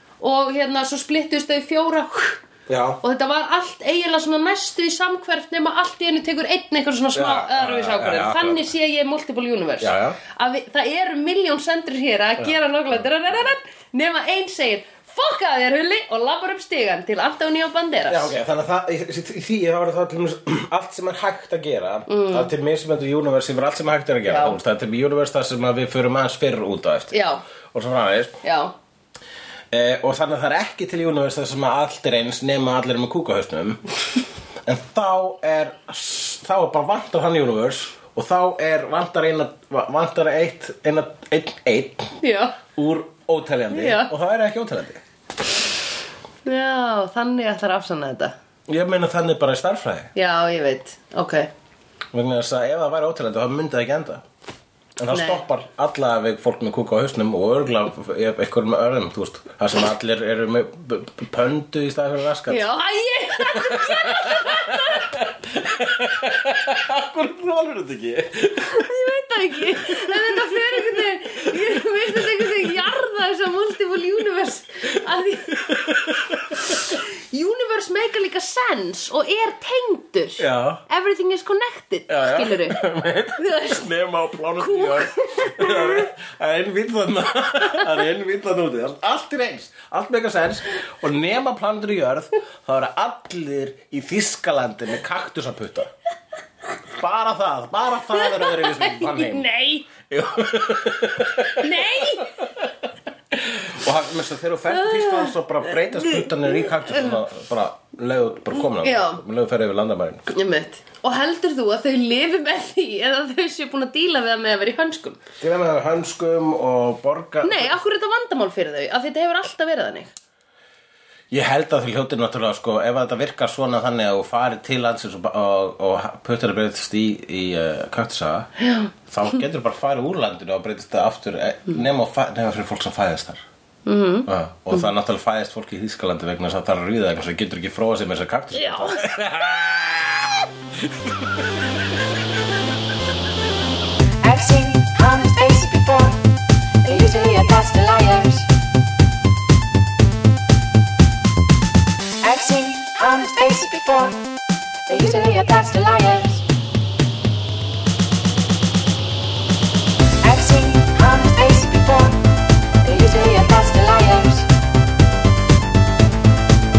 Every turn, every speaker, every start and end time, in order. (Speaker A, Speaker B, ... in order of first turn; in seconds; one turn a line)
Speaker A: 0.2-2.4
Speaker B: 2.7-3.0
Speaker A: 3.0-18.4
Speaker B: 7.1-8.7
Speaker B: 9.8-10.2
Speaker B: 18.1-27.2
Speaker A: 22.1-22.5
Speaker A: 24.2-24.6
Speaker A: 27.1-27.4
Speaker B: 27.7-28.4
Speaker A: 28.4-28.7
Speaker B: 29.7-33.8
Speaker B: 34.6-45.0
Speaker A: 42.2-42.6
Speaker A: 43.7-44.1
Speaker A: 46.4-48.3
Speaker B: 48.7-50.1
Speaker A: 50.1-51.5
Speaker B: 52.1-54.2
Speaker B: 55.0-62.7
Speaker A: 55.1-55.4
Speaker A: 62.5-65.3
Speaker B: 63.4-68.9
Speaker A: 68.7-75.9
Speaker B: 69.8-72.5
Speaker B: 75.6-76.6
Speaker A: 76.5-82.8
Speaker B: 80.4-80.8
Speaker B: 82.1-95.9
Speaker A: 83.4-83.9
Speaker A: 84.6-86.1
Speaker B: 96.9-99.5
Speaker A: 98.1-99.9
Speaker B: 100.0-102.7
Speaker A: 101.4-102.4
Speaker B: 103.3-110.3
Speaker A: 104.7-107.1
Speaker A: 108.8-109.2
Speaker A: 110.3-115.2
Speaker B: 115.4-117.7
Speaker A: 117.4-120.1
Speaker B: 121.3-128.5
Speaker A: 128.6-128.9
Speaker B: 129.1-133.4
Speaker A: 133.8-134.9
Speaker B: 134.3-141.4
Speaker A: 138.5-139.0
Speaker C: 144.2-146.2
Speaker C: 146.8-148.5
Speaker C: 152.2-154.3
Speaker C: 154.9-156.4
Speaker C: 160.2-162.3
Speaker C: 162.8-164.5